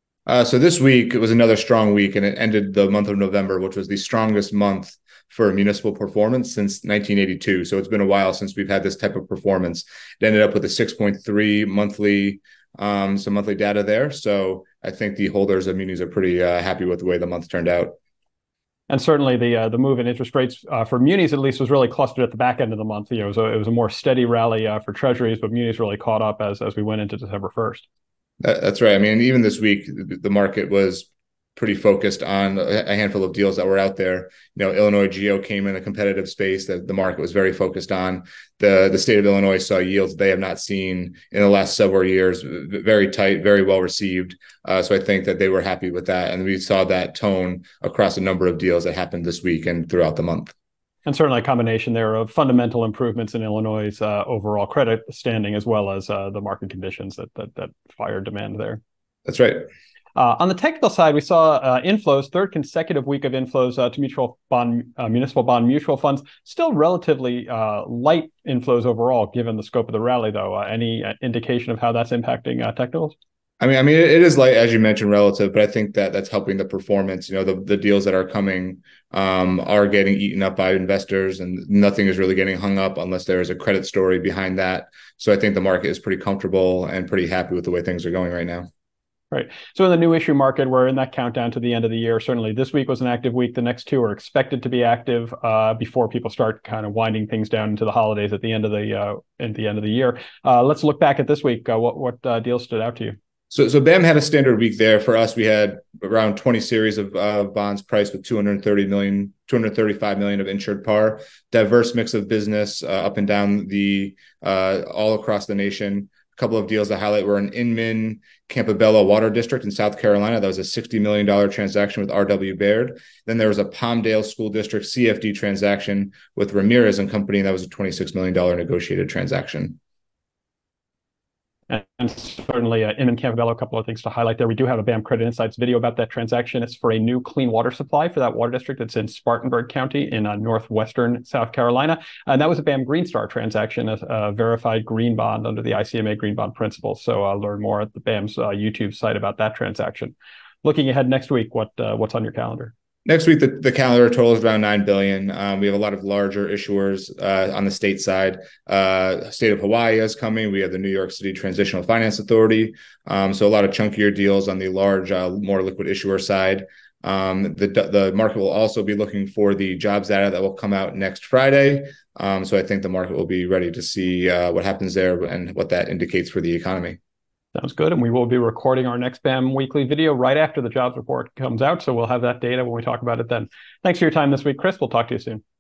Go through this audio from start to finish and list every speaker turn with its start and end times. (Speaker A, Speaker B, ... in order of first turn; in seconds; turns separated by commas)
Speaker A: 0.3-17.9, Speaker B: 18.9-27.9, Speaker A: 28.4-50.5, Speaker B: 51.1-58.8, Speaker A: 59.2-59.7, Speaker B: 60.1-73.2, Speaker A: 73.6-88.7, Speaker B: 89.3-103.2, Speaker A: 103.5-129.8, Speaker B: 131.7-152.7, Speaker A: 153.0-177.0, Speaker B: 177.5-185.4